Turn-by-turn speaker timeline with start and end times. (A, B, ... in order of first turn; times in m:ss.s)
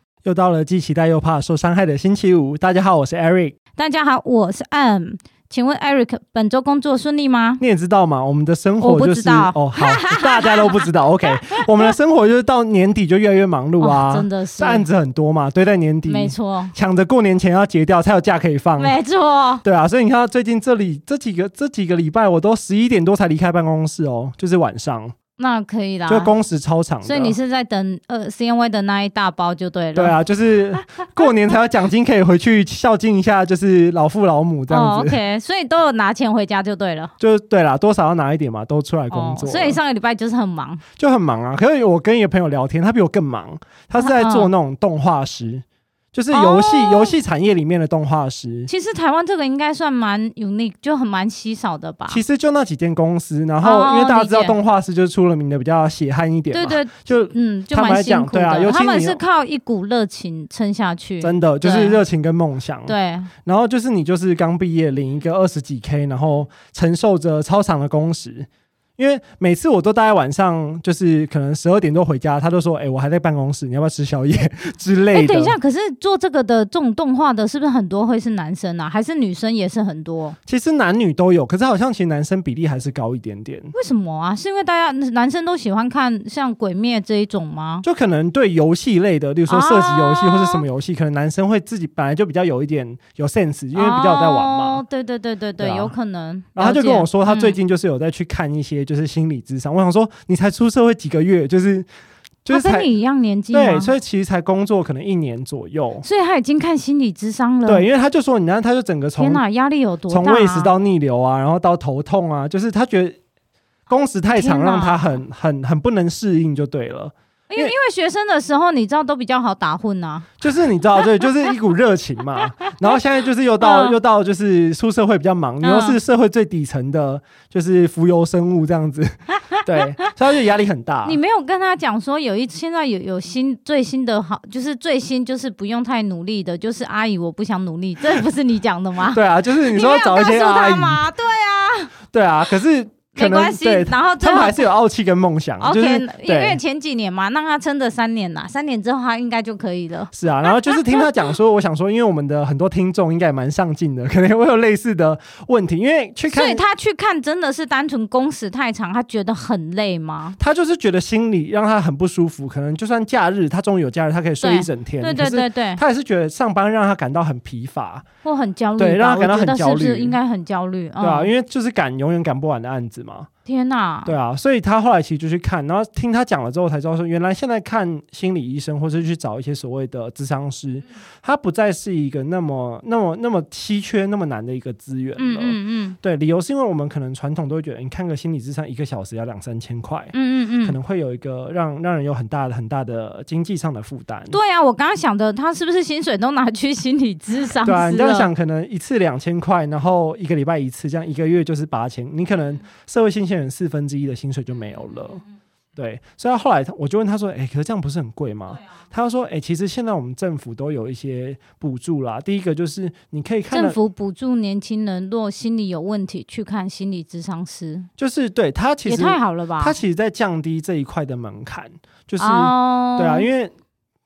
0:00.2-0:03.5 A
0:03.8-0:07.6 B
0:07.6-0:19.0 A
0:08.8-0:10.8 B
0:13.8-0:14.8 B
0:16.1-0:16.7 B
0:18.8-0:19.6 B
0:19.6-0:25.1 A
0:25.4-0:26.3 B
0:26.1-0:27.4 A
0:27.0-0:30.2 B
0:29.9-0:35.2 A
0:34.7-0:37.1 B
0:37.2-0:39.8 A
0:39.1-0:40.8 B
0:41.0-0:48.7 A
0:44.0-0:44.5 B
0:46.3-0:47.2 B
0:48.7-0:52.2 B
0:52.1-0:59.2 A
0:53.6-0:54.6 B
0:56.5-1:02.0 B
1:01.2-1:15.6 A
1:02.8-1:03.3 B
1:15.1-1:20.4 B
1:20.5-1:23.7 A
1:23.7-1:27.8 B
1:27.8-1:34.8 A
1:29.5-1:30.6 B
1:33.7-1:37.6 B
1:35.6-1:35.9 A
1:36.6-1:41.9 A
1:42.4-1:42.9 A
1:42.5-1:43.9 B
1:43.5-1:46.0 A
1:46.0-1:47.8 B
1:47.6-1:49.4 A
1:49.2-1:50.7 B
1:50.1-1:53.2 A
1:53.9-1:57.7 A
1:54.4-1:55.0 B
1:57.5-2:00.3 B
2:00.4-2:11.2 A
2:03.6-2:04.0 B
2:05.6-2:06.0 B
2:11.0-2:21.9 B
2:19.1-2:21.1 A
2:22.1-2:26.6 A
2:23.1-2:24.6 B
2:25.6-2:31.0 B
2:30.1-2:36.6 A
2:36.3-2:40.4 B
2:40.4-2:48.0 A
2:44.4-2:45.8 B
2:48.2-2:51.3 B
2:48.8-2:50.2 A
2:51.0-2:53.3 A
2:53.4-2:54.1 B
2:54.0-3:14.4 A
3:05.2-3:06.0 B
3:10.1-3:10.8 B
3:14.3-3:18.3 B
3:17.6-3:25.2 A
3:25.8-3:33.8 A
3:33.5-3:37.9 B
3:38.0-3:43.5 A
3:38.8-3:39.7 B
3:42.2-3:43.3 B